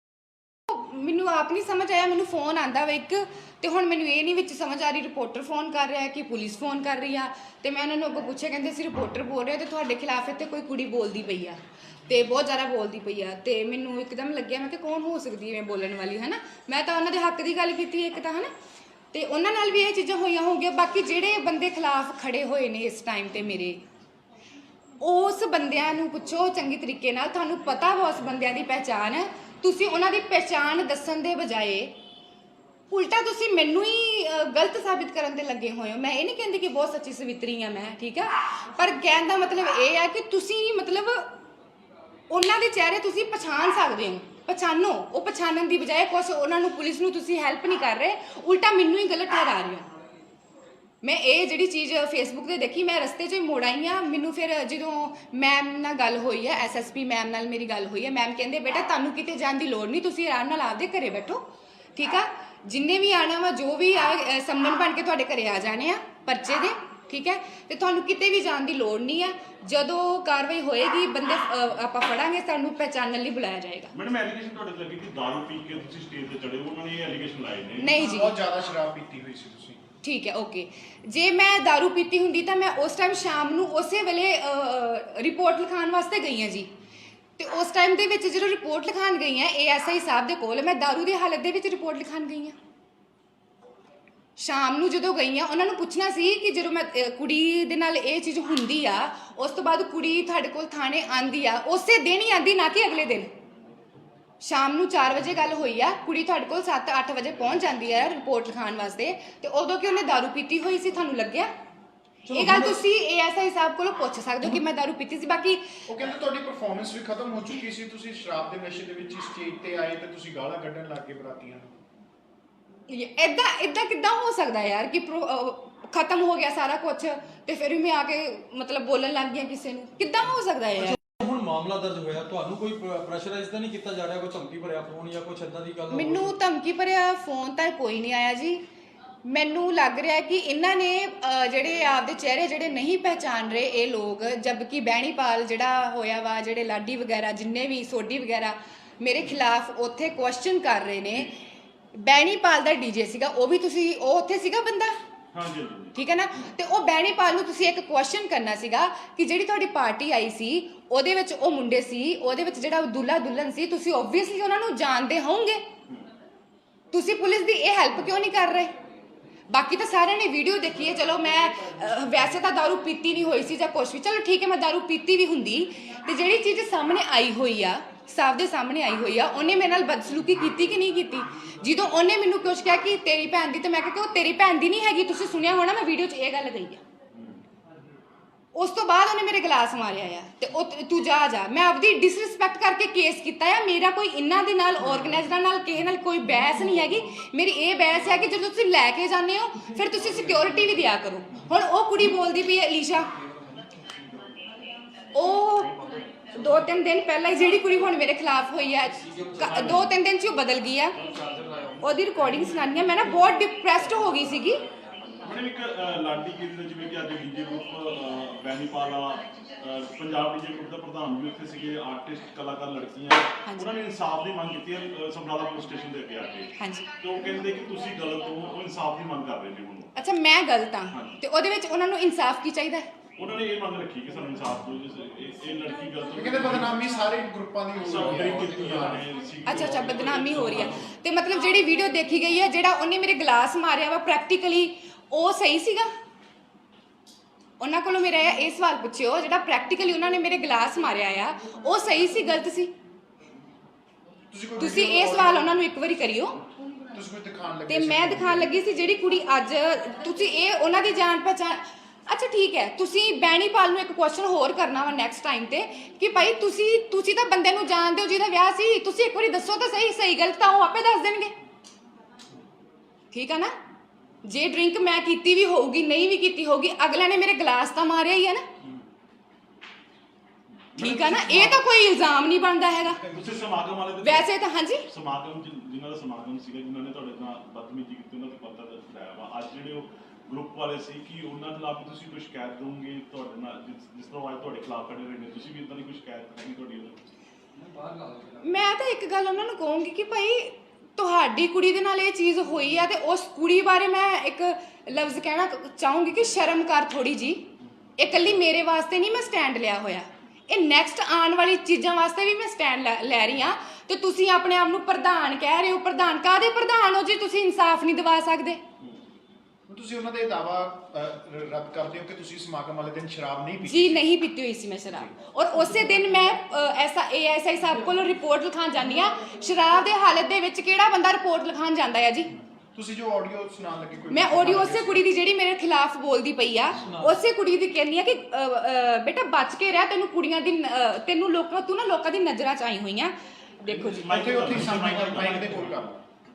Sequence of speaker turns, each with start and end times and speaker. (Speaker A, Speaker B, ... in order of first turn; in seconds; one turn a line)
Speaker A: 0.7-18.5
Speaker A: 19.1-23.8
Speaker A: 25.0-31.9
Speaker A: 32.9-41.4
Speaker A: 42.3-49.9
Speaker A: 51.0-73.9
Speaker B: 73.9-78.0
Speaker A: 77.8-78.3
Speaker C: 78.0-79.8
Speaker A: 80.0-86.7
Speaker A: 87.4-92.6
Speaker A: 94.4-103.3
Speaker A: 104.4-111.5
Speaker D: 112.3-112.8
Speaker A: 112.3-115.6
Speaker C: 115.9-121.7
Speaker A: 122.9-131.0
Speaker D: 130.8-136.3
Speaker A: 135.9-138.6
Speaker A: 139.2-151.3
Speaker A: 151.9-155.0
Speaker B: 155.3-156.0
Speaker A: 155.9-165.6
Speaker A: 166.9-168.7
Speaker A: 169.5-186.8
Speaker A: 188.6-203.1
Speaker D: 203.2-203.8
Speaker A: 205.1-211.0
Speaker D: 209.0-209.9
Speaker B: 209.5-209.8
Speaker B: 211.0-211.8
Speaker A: 211.8-214.6
Speaker B: 215.2-229.9
Speaker A: 226.6-226.9
Speaker A: 229.9-232.9
Speaker B: 230.9-231.2
Speaker B: 233.2-236.9
Speaker C: 236.1-239.1
Speaker B: 237.8-241.0
Speaker A: 239.4-245.9
Speaker A: 247.6-252.7
Speaker C: 254.3-255.6
Speaker A: 254.6-256.4
Speaker C: 256.9-258.5
Speaker A: 257.7-271.4
Speaker A: 273.1-273.6
Speaker A: 274.2-278.5
Speaker B: 280.7-281.7
Speaker A: 280.8-283.0
Speaker C: 282.8-283.5
Speaker B: 283.1-297.0
Speaker A: 284.0-284.9
Speaker D: 297.6-298.5
Speaker A: 298.4-318.6
Speaker C: 319.7-324.1
Speaker A: 323.7-332.3
Speaker C: 332.8-335.1
Speaker A: 334.1-344.5
Speaker D: 336.7-337.2
Speaker B: 343.7-345.8
Speaker C: 344.1-346.0
Speaker D: 344.6-345.3